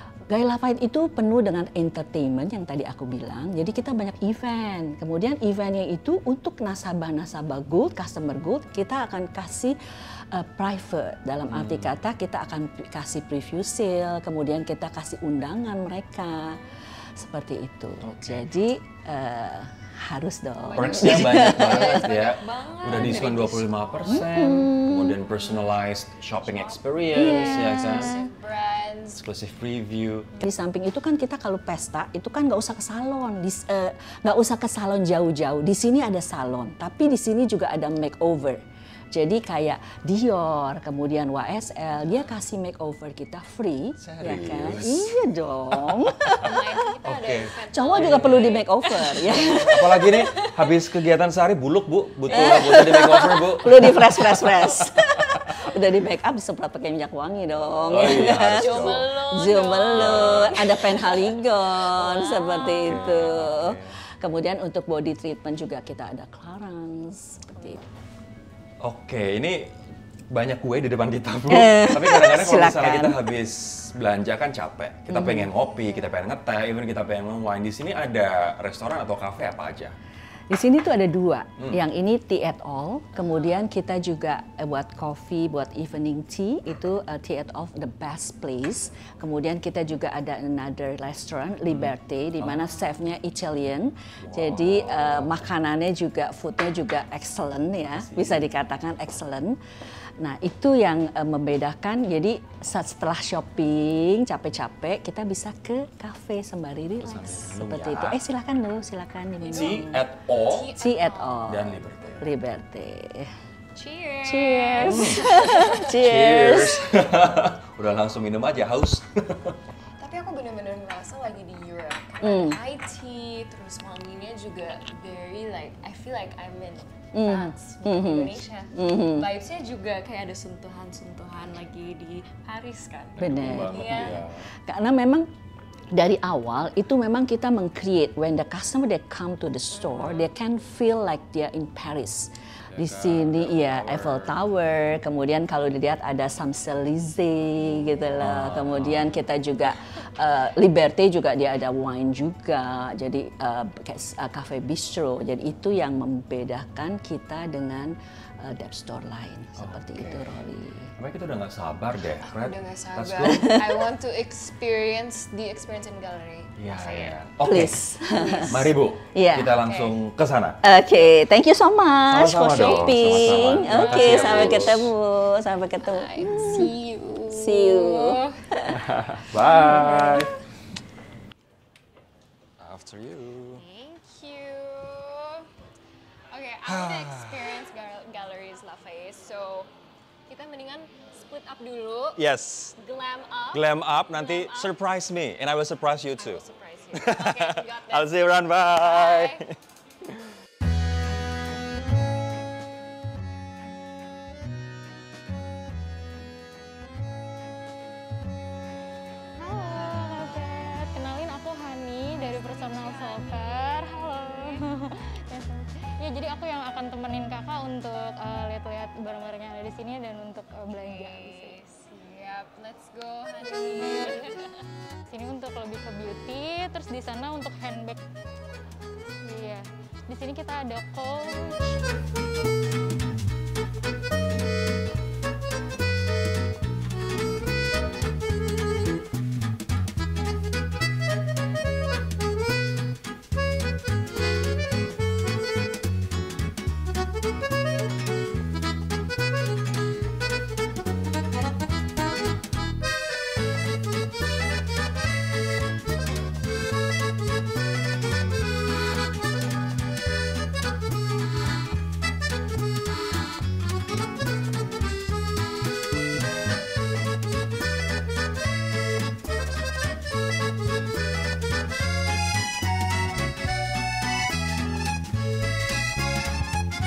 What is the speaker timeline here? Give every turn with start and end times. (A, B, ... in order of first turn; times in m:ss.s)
0:00.3-0:09.8 A
0:10.3-0:16.6 A
0:11.5-0:11.9 B
0:17.2-0:22.2 A
0:18.0-0:18.4 B
0:20.6-0:24.4 C
0:20.8-0:28.2 B
0:22.9-0:23.4 A
0:24.0-0:25.2 A
0:25.3-0:25.8 C
0:26.4-0:29.2 C
0:27.1-0:28.3 A
0:29.2-0:30.3 B
0:30.4-0:38.6 A
0:39.1-0:46.8 A
0:44.0-0:46.4 B
0:46.4-0:49.5 C
0:47.0-0:48.6 B
0:47.7-0:50.3 A
0:49.4-0:55.4 B
0:50.1-0:50.6 C
0:52.3-1:07.8 A
0:52.3-0:53.0 C
0:57.8-0:59.0 B
0:58.2-1:03.2 C
0:59.9-1:00.7 B
1:02.7-1:03.9 B
1:08.8-1:09.6 B
1:10.3-1:19.9 B
1:11.5-1:13.2 A
1:15.1-1:15.4 A
1:20.5-1:39.6 A
1:31.7-1:32.7 B
1:34.2-1:35.4 B
1:37.9-1:38.5 B
1:40.2-1:50.0 A
1:47.0-1:48.2 B
1:49.4-1:51.5 C
1:49.5-1:50.7 B
1:50.8-1:53.3 A
1:51.4-1:52.3 B
1:53.7-1:56.0 C
1:54.2-1:57.0 A
1:54.8-1:59.6 B
2:00.0-2:14.2 C
2:02.2-2:02.6 A
2:07.1-2:09.3 A
2:13.2-2:14.5 B
2:13.2-2:15.3 A
2:15.9-2:40.9 A
2:19.7-2:20.3 C
2:22.7-2:24.4 B
2:28.2-2:29.2 B
2:39.6-2:40.3 B
2:41.0-2:43.5 B
2:42.2-2:47.2 C
2:43.4-2:43.8 A
2:46.6-2:47.8 B
2:47.4-2:49.5 A
2:48.1-2:48.5 C
2:48.4-2:50.6 B
2:49.6-2:50.0 C
2:50.6-2:56.7 A
2:52.1-2:54.9 B
2:52.5-2:54.7 C
2:55.8-2:58.4 C
2:57.3-2:58.8 A
2:58.8-3:00.3 B
2:59.4-3:00.2 C
2:59.7-3:00.3 A
3:02.6-3:03.6 B
3:03.5-3:05.5 C
3:06.3-3:09.7 C
3:06.6-3:07.6 B
3:10.3-3:12.2 C
3:12.2-3:12.8 B
3:12.8-3:14.7 C
3:13.5-3:16.4 B
3:16.2-3:18.1 C
3:16.9-3:19.6 B
3:18.6-3:19.4 C
3:29.3-3:41.6 D
3:32.3-3:34.7 C
3:40.8-3:44.5 C
3:43.4-3:44.3 D
3:45.1-3:48.0 D
3:49.2-3:51.7 D